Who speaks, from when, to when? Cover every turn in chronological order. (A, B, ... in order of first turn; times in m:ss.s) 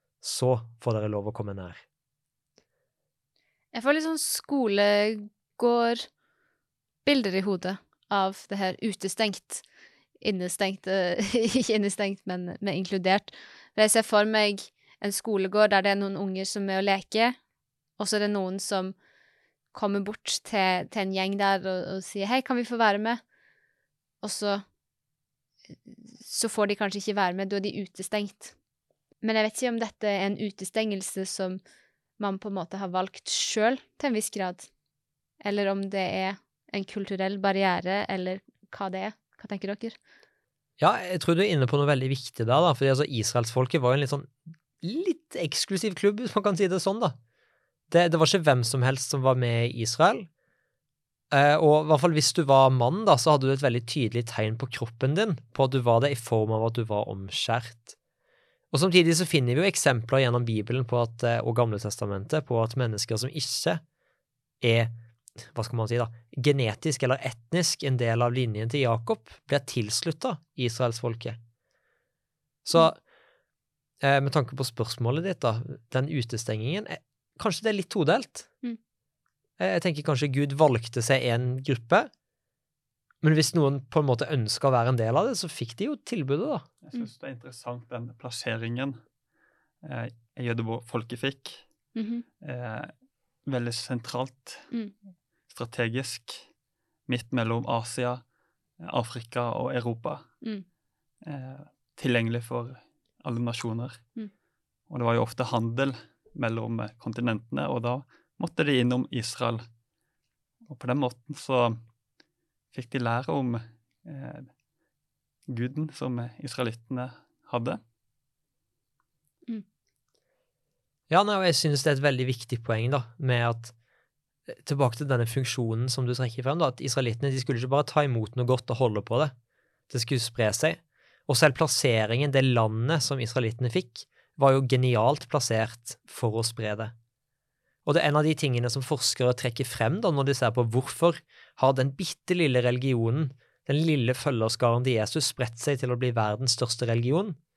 0:00.2-0:01.8 A
0:03.7-0:06.1 B
0:07.0-0:09.6 B
0:10.2-0:17.4 B
0:18.0-0:19.0 B
0:19.7-0:23.2 B
0:24.2-0:24.6 B
0:25.9-0:28.5 B
0:29.2-0:31.6 B
0:32.2-0:34.7 B
0:35.4-0:40.0 B
0:40.8-0:47.2 A
0:47.9-0:50.3 A
0:51.3-0:58.0 A
0:58.7-1:03.8 A
1:04.6-1:11.4 A
1:12.7-1:13.0 A
1:14.0-1:18.5 A
1:19.6-1:22.1 A
1:23.2-1:26.6 A
1:26.8-1:29.0 C
1:29.8-1:31.6 C
1:32.0-1:32.2 B
1:32.4-1:32.9 C
1:33.5-1:34.7 C
1:35.5-1:36.5 C
1:37.1-1:38.2 C
1:38.8-1:40.3 C
1:41.2-1:44.0 C
1:44.9-1:49.6 C
1:50.7-1:51.8 C
1:52.7-1:54.5 C
1:55.5-1:57.8 C
2:01.1-2:03.7 A
2:04.5-2:09.3 A
2:09.9-2:16.9 A
2:17.9-2:27.4 A